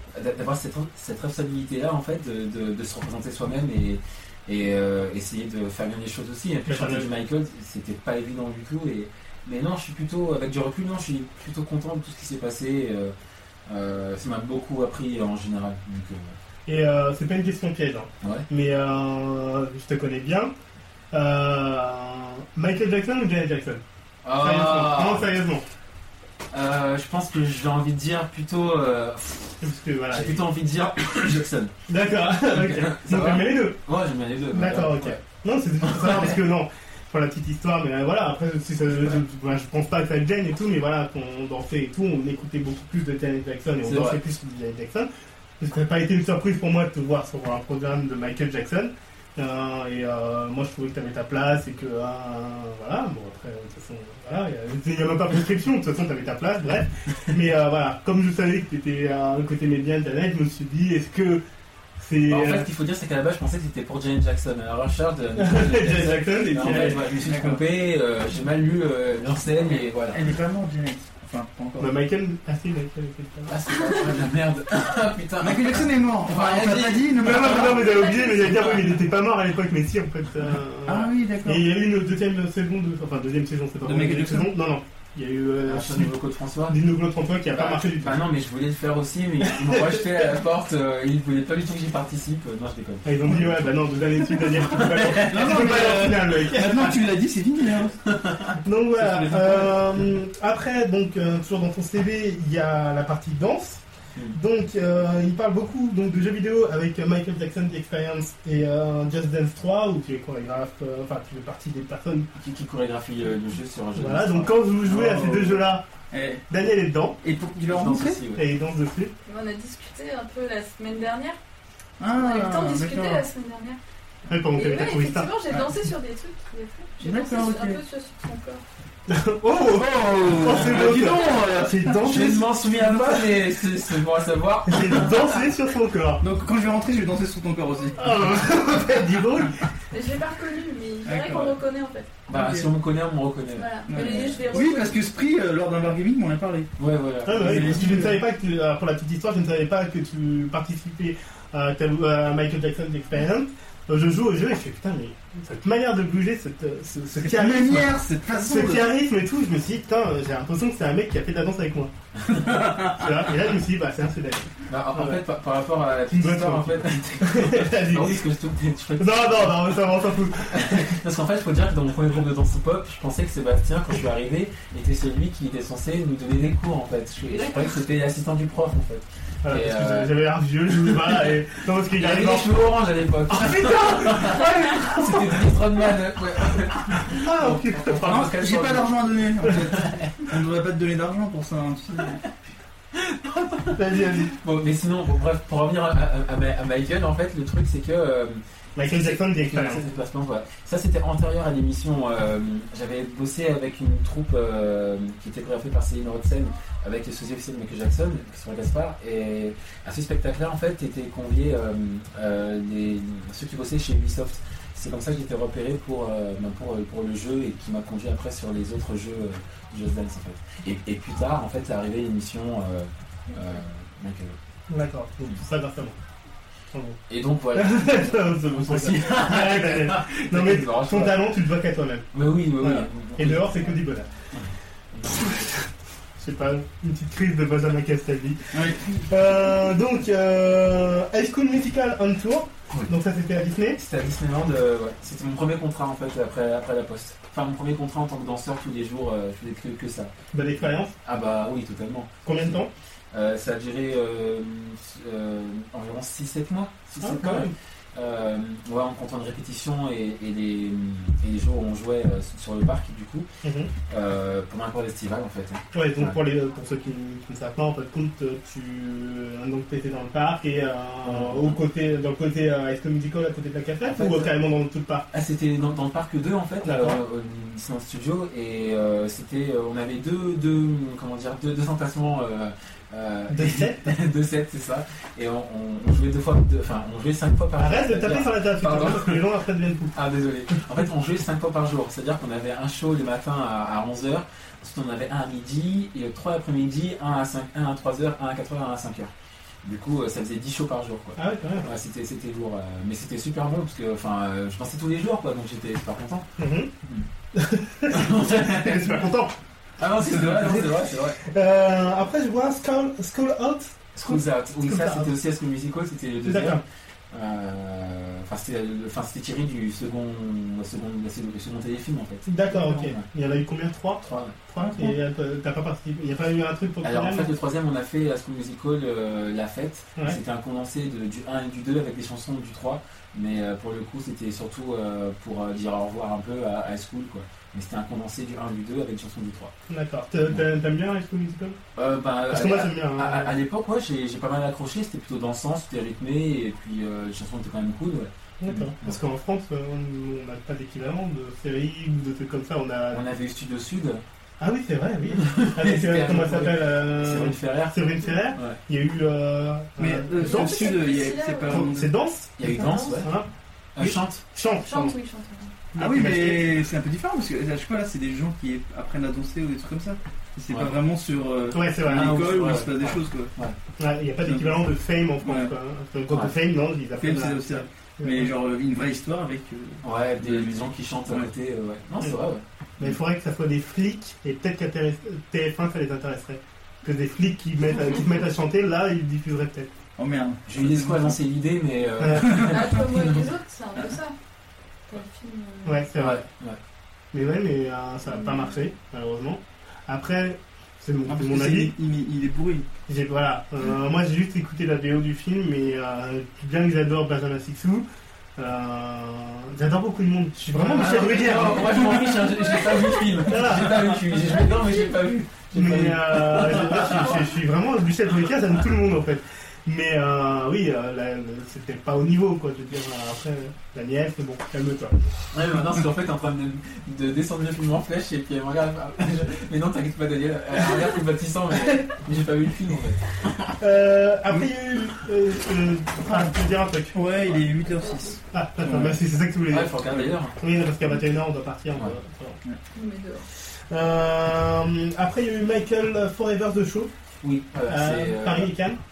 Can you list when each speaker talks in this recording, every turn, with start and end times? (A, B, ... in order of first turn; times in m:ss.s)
0:00.1-0:13.1 A
0:06.7-0:07.1 B
0:13.7-0:16.4 A
0:16.7-0:20.5 B
0:18.2-0:18.5 A
0:21.1-0:23.8 B
0:24.2-0:25.3 A
0:24.4-0:25.6 B
0:26.5-0:31.7 A
0:29.6-0:30.4 B
0:31.9-0:33.8 B
0:32.5-0:35.2 A
0:34.5-0:45.1 B
0:35.8-0:36.4 A
0:43.8-0:44.2 A
0:45.6-1:01.4 B
1:02.0-1:02.7 B
1:02.3-1:10.2 A
1:05.4-1:07.0 B
1:06.6-1:07.6 C
1:10.0-1:11.9 C
1:11.8-1:13.6 B
1:13.5-1:17.6 A
1:15.4-1:17.8 C
1:17.2-1:26.1 B
1:17.6-1:18.9 D
1:20.9-1:21.7 C
1:23.8-1:24.5 C
1:25.7-1:26.8 A
1:26.7-1:28.2 B
1:27.5-1:33.5 A
1:29.5-1:30.0 B
1:33.0-1:37.0 B
1:34.6-1:35.6 A
1:35.3-1:38.0 C
1:38.1-1:38.6 A
1:38.6-1:52.3 B
1:39.0-1:40.0 C
1:52.4-1:54.6 A
1:54.0-1:55.8 B
1:54.9-1:56.4 C
1:56.5-1:57.2 B
1:57.2-1:58.2 C
1:57.6-1:58.4 A
1:58.4-1:59.1 B
1:59.3-2:01.4 D
2:02.0-2:03.3 C
2:02.1-2:03.8 D
2:04.3-2:05.3 B
2:04.6-2:08.6 D
2:05.5-2:05.8 C
2:07.0-2:07.8 C
2:09.1-2:12.5 B
2:09.7-2:13.2 C
2:12.0-2:15.4 A
2:14.7-2:16.2 B
2:16.2-2:18.2 C
2:18.0-2:19.7 B
2:19.9-2:22.1 D
2:21.0-2:21.5 C
2:22.3-2:24.5 A
2:22.3-2:22.7 C
2:23.5-2:25.0 D
2:23.9-2:26.7 C
2:26.8-2:28.1 A
2:27.2-2:41.9 B
2:27.3-2:28.2 C
2:37.2-2:38.9 C
2:42.4-2:43.0 C
2:42.6-2:45.2 B
2:44.7-3:00.1 A
2:46.1-2:48.2 B
2:49.0-2:50.9 B
2:59.4-3:02.5 B
3:00.8-3:01.2 A
3:02.0-3:08.9 A
3:03.3-3:05.0 B
3:07.1-3:08.3 B
3:08.1-3:12.2 C
3:09.7-3:10.1 A
3:12.9-3:44.4 A
3:13.7-3:14.4 B
3:18.8-3:19.8 B
3:44.7-3:46.0 B
3:46.7-3:47.0 B
3:47.1-3:51.2 A
3:47.5-3:52.1 B
3:52.1-3:53.8 A
3:52.6-3:54.1 B
3:54.3-3:55.5 A
3:55.0-4:03.8 B
3:58.5-3:58.8 C
4:03.8-4:10.1 A
4:10.3-4:11.0 B
4:11.0-4:12.6 A
4:12.2-4:12.7 B
4:13.1-4:23.3 A
4:17.0-4:17.5 B
4:23.4-4:23.7 B
4:23.9-4:26.2 A
4:25.7-4:35.1 B
4:31.0-4:31.6 A
4:33.8-4:34.3 A
4:35.1-4:49.2 A
4:36.6-4:37.0 B
4:43.3-4:43.9 B
4:47.6-4:49.9 B
4:49.9-4:59.1 A
4:59.6-5:06.3 A
5:01.2-5:01.7 B
5:06.4-5:06.7 B
5:06.8-5:07.1 A
5:07.3-5:09.4 B
5:07.9-5:09.1 A
5:09.8-5:11.2 A
5:10.1-5:15.1 B
5:13.9-5:23.1 A
5:16.2-5:16.6 B
5:22.3-5:27.3 B
5:24.0-5:24.4 A
5:26.8-5:39.5 A
5:39.7-5:41.6 B
5:41.8-5:49.0 A
5:42.3-5:43.3 B
5:48.4-5:53.0 B
5:52.9-5:54.0 A
5:54.4-6:00.8 B
5:55.1-5:57.8 A
5:59.8-6:01.9 C
6:00.2-6:01.7 D
6:01.4-6:03.3 B
6:02.4-6:03.1 A
6:02.6-6:03.1 D
6:03.8-6:04.2 A
6:03.8-6:05.0 B
6:04.6-6:05.6 D
6:05.7-6:06.5 B
6:05.8-6:13.3 C
6:10.5-6:10.8 A
6:11.5-6:12.3 B
6:11.9-6:13.6 A
6:13.8-6:18.3 B
6:14.2-6:14.6 C
6:15.2-6:15.5 C
6:17.0-6:21.3 C
6:19.8-6:23.0 A
6:22.8-6:29.7 B
6:30.0-6:31.2 C
6:30.4-6:33.3 A
6:32.0-6:32.3 B
6:32.2-6:32.6 C
6:32.4-6:34.1 D
6:34.9-6:35.9 D
6:35.6-6:36.2 B
6:36.0-6:36.6 A
6:37.1-6:41.7 B
6:38.1-6:38.5 D
6:41.1-6:42.7 C
6:42.9-6:47.9 B
6:48.4-6:51.9 B
6:50.5-6:57.3 A
6:51.0-6:52.2 C
6:52.2-6:53.2 D
6:53.2-6:54.0 B
6:54.2-6:54.9 D
6:55.5-7:05.0 B
7:05.3-7:13.0 A
7:13.6-7:17.0 B
7:16.1-7:16.3 C
7:16.9-7:19.0 C
7:18.3-7:22.4 B
7:19.5-7:21.1 A
7:22.7-7:23.2 D
7:23.7-7:26.9 B
7:27.2-7:28.5 A
7:27.7-7:28.8 B